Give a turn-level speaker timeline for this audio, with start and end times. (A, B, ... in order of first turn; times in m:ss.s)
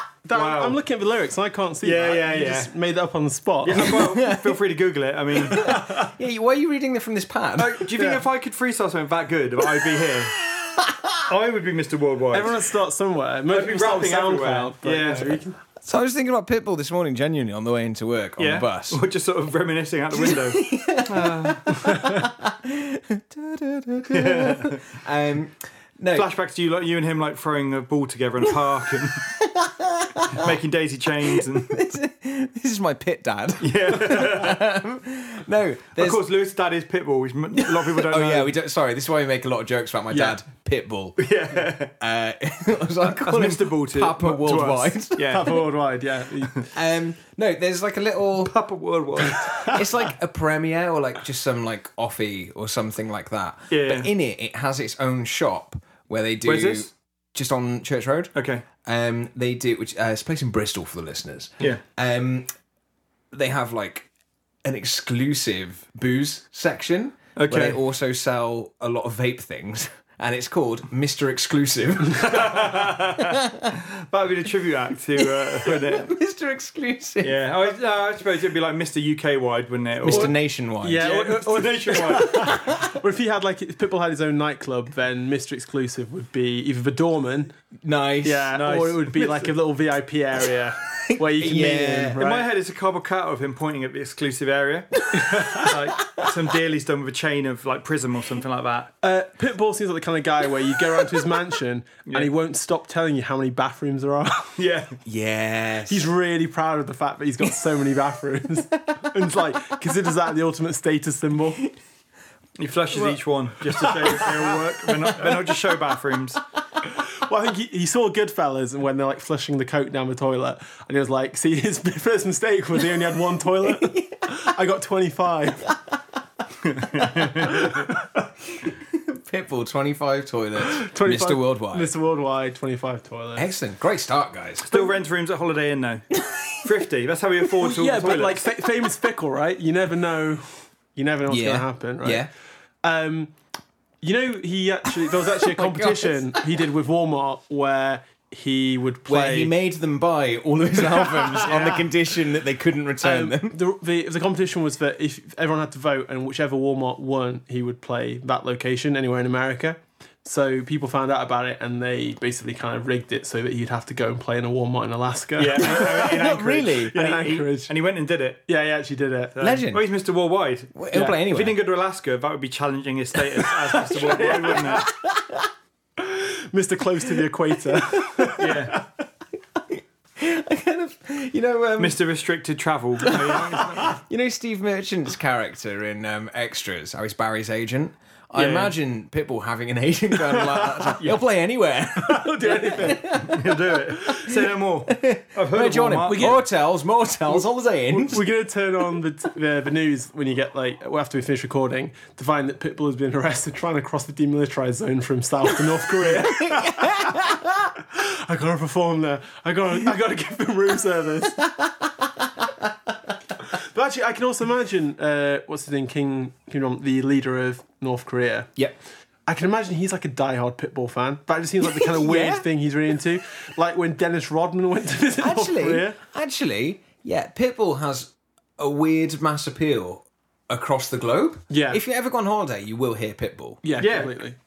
0:00.2-0:04.0 A
0:00.3-0:00.8 B
0:01.8-0:02.7 B
0:03.6-0:05.7 B
0:03.8-0:04.5 C
0:05.5-0:07.9 C
0:05.6-0:06.1 A
0:07.6-0:10.4 B
0:10.5-0:11.2 C
0:11.3-0:12.5 B
0:12.3-0:15.6 A
0:13.5-0:15.4 B
0:15.8-0:19.0 C
0:18.4-0:21.8 B
0:20.1-0:26.3 C
0:24.1-0:24.8 B
0:26.1-0:29.2 B
0:29.3-0:30.5 C
0:30.3-0:31.9 B
0:31.7-0:36.2 C
0:33.6-0:34.6 B
0:36.0-0:38.5 B
0:37.6-0:41.3 C
0:40.1-0:40.4 A
0:41.2-0:41.9 B
0:42.0-0:45.5 C
0:43.0-0:45.6 B
0:45.2-0:46.7 A
0:46.7-0:48.5 C
0:48.4-0:49.5 B
0:49.3-0:49.9 A
0:49.5-0:58.3 C
0:53.7-0:54.1 B
0:56.4-0:56.9 B
0:58.3-0:58.6 B
0:58.8-1:02.5 C
1:03.3-1:04.1 C
1:04.6-1:13.7 C
1:07.4-1:07.8 B
1:12.2-1:16.1 B
1:15.2-1:17.4 C
1:17.2-1:20.3 B
1:20.0-1:21.0 C
1:20.1-1:27.5 A
1:21.0-1:22.3 B
1:22.2-1:22.9 C
1:27.8-1:28.5 C
1:28.2-1:32.5 A
1:28.5-1:29.5 B
1:31.0-1:32.2 C
1:32.2-1:38.9 B
1:35.1-1:36.2 C
1:35.1-1:35.7 A
1:39.0-1:44.5 A
1:44.6-1:45.0 B
1:45.0-1:46.1 C
1:45.9-1:51.6 A
1:52.6-1:56.4 B
1:53.8-1:54.4 A
1:57.0-2:05.7 A
2:03.7-2:04.4 C
2:06.6-2:07.8 B
2:07.6-2:07.9 A
2:08.6-2:11.9 C
2:10.6-2:13.5 A
2:13.4-2:14.8 C
2:14.6-2:16.1 B
2:16.2-2:16.5 C
2:16.6-2:18.5 B
2:17.6-2:22.3 A
2:21.3-2:22.3 C
2:22.8-2:23.3 A
2:24.0-2:29.5 A
2:25.0-2:26.6 C
2:29.1-2:33.6 C
2:30.8-2:32.1 A
2:33.0-2:46.2 A
2:45.4-2:48.4 B
2:45.6-2:47.0 C
2:46.9-2:47.7 A
2:48.5-2:49.4 A
2:49.3-2:54.9 B
2:49.4-2:49.8 C
2:50.7-2:51.6 C
2:53.8-2:54.9 A
2:54.6-2:55.5 C
2:56.0-2:58.8 A
2:57.7-2:58.3 C
2:58.4-2:58.8 B
2:59.5-3:02.0 C
3:01.8-3:03.9 B
3:03.0-3:13.4 C
3:08.3-3:08.7 B
3:10.2-3:11.1 A
3:12.0-3:13.4 A
3:13.0-3:16.4 B
3:14.9-3:18.2 C
3:16.1-3:16.4 A
3:17.3-3:27.3 A
3:26.0-3:27.7 C
3:27.9-3:31.4 A
3:31.4-3:32.7 C
3:33.5-3:38.5 A
3:39.3-3:46.0 A
3:41.6-3:42.4 C
3:45.2-3:53.6 C
3:51.5-3:51.8 A
3:53.6-3:54.4 A
3:53.8-3:54.1 B